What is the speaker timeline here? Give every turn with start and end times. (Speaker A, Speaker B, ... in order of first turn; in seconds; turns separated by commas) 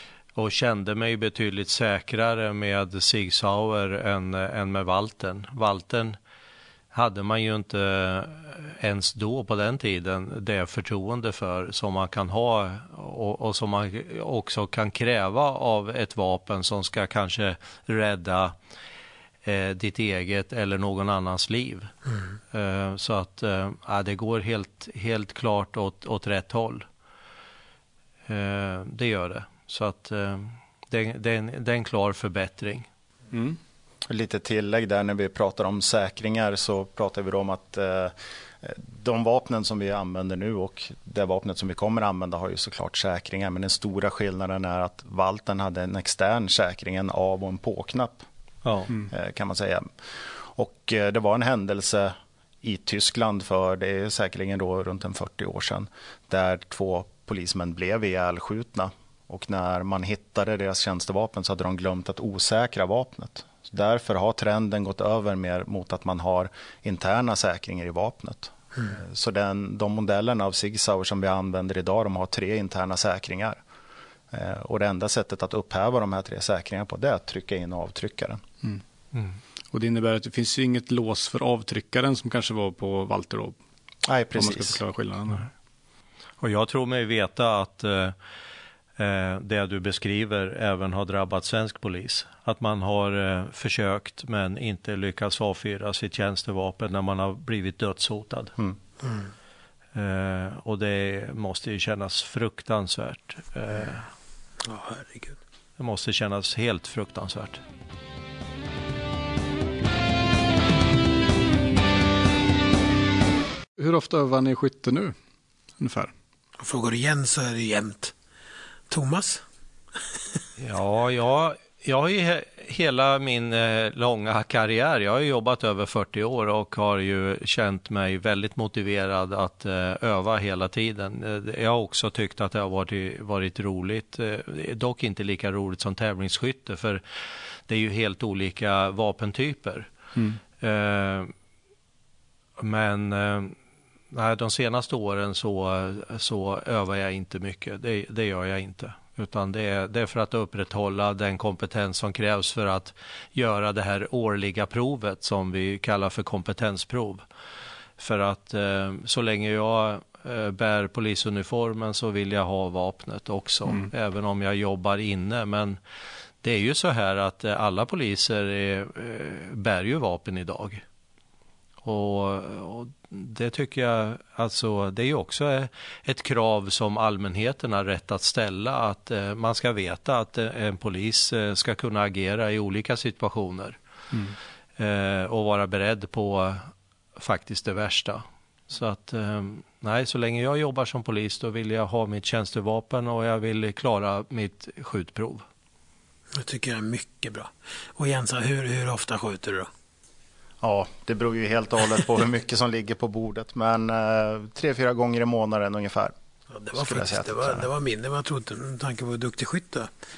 Speaker A: 0.3-6.2, Speaker A: 6.9-18.5, Speaker A: 19.4-21.9, Speaker A: 22.5-26.8, Speaker A: 28.3-32.9, Speaker B: 33.3-33.6, Speaker C: 34.1-48.2, Speaker A: 48.6-48.9, Speaker C: 49.1-49.8, Speaker C: 50.4-73.6, Speaker C: 74.3-78.4, Speaker A: 79.1-79.4, Speaker B: 79.7-83.6, Speaker C: 84.0-84.8, Speaker B: 84.3-85.5, Speaker A: 86.4-88.1, Speaker A: 89.0-98.5, Speaker D: 99.0-99.3, Speaker A: 99.9-104.1, Speaker D: 104.6-105.4, Speaker A: 105.8-107.6, Speaker B: 113.8-115.1, Speaker B: 115.8-116.1, Speaker D: 116.6-118.1, Speaker D: 118.9-119.4, Speaker D: 119.9-120.4, Speaker A: 120.6-137.0, Speaker A: 137.7-139.9, Speaker A: 140.6-141.3, Speaker A: 142.6-143.5, Speaker A: 144.1-157.2, Speaker A: 158.0-165.8, Speaker A: 166.4-170.8, Speaker A: 171.8-183.8, Speaker A: 184.8-195.4, Speaker D: 196.3-199.7, Speaker C: 200.6-206.1, Speaker D: 206.5-209.9, Speaker C: 206.8-207.7